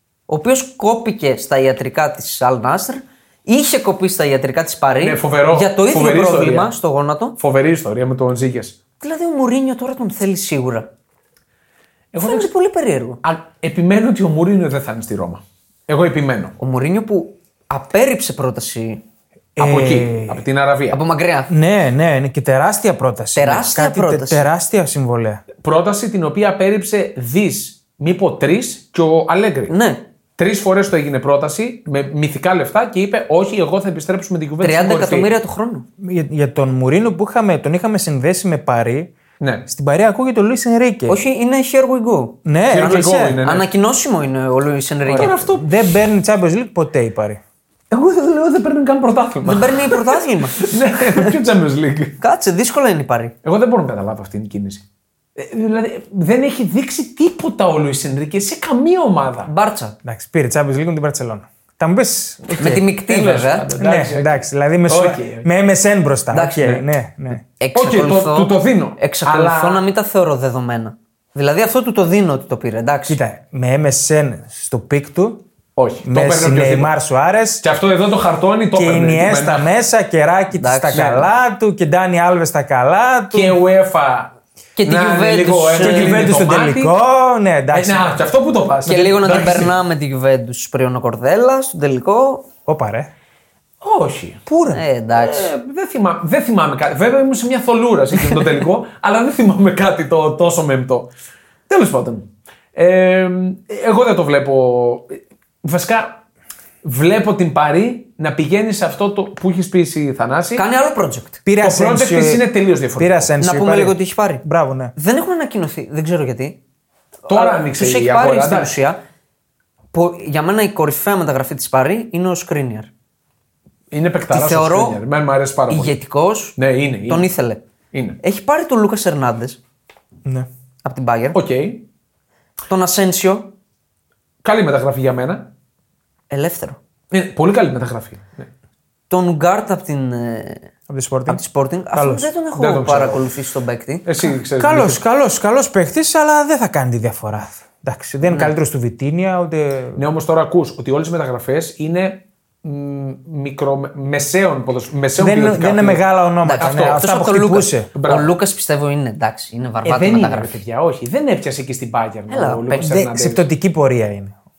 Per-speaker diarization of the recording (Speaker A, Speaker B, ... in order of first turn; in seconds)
Speaker A: 0.3-7.3, 9.0-10.9, 12.2-13.2, 16.6-19.0, 20.9-21.5, 23.3-24.5, 29.7-30.0, 34.6-35.9, 41.1-42.4, 42.9-45.6, 49.4-50.7, 52.2-53.3, 59.5-59.9, 62.5-63.6, 66.3-66.6, 67.6-73.2, 80.6-81.3, 84.8-86.3, 88.8-92.5, 94.7-95.5, 110.5-111.4, 113.4-114.4, 115.0-116.6, 117.3-119.0, 119.9-122.9, 124.3-125.0, 125.7-127.6, 128.2-129.6, 130.8-131.4, 132.7-133.5, 136.3-136.8, 139.1-140.7, 141.3-144.0, 156.4-160.6, 162.3-162.8
Speaker B: 5.0-6.7, 7.4-8.8, 12.1-12.5, 13.2-16.6, 19.6-21.0, 25.6-29.7, 30.4-35.3, 39.4-39.6, 42.7-43.7, 45.1-45.6, 47.9-52.2, 53.4-54.8, 55.4-59.5, 62.6-65.5, 67.7-69.8, 75.8-76.9, 77.6-79.7, 83.3-84.3, 84.8-86.9, 87.7-89.7, 93.8-94.5, 95.1-101.1, 101.7-106.2, 106.8-110.6, 111.6-113.3, 117.3-118.7, 123.9-126.0, 126.5-127.3, 127.9-128.2, 131.3-131.8, 134.4-135.5, 137.1-138.5, 142.5-143.3, 144.0-145.0, 149.9-156.0, 156.6-157.1, 157.9-158.3, 159.8-163.4
Speaker C: 19.6-20.4, 21.5-25.4, 36.0-39.1, 39.7-41.2, 42.4-43.4, 45.1-47.4, 60.0-62.8, 63.8-67.4, 73.1-75.4, 76.0-77.6, 78.7-83.6, 85.8-88.2, 92.7-93.1, 94.5-94.8, 111.4-114.9, 140.9-141.4, 141.9-142.3, 144.6-150.0, 155.2-157.9, 162.8-164.3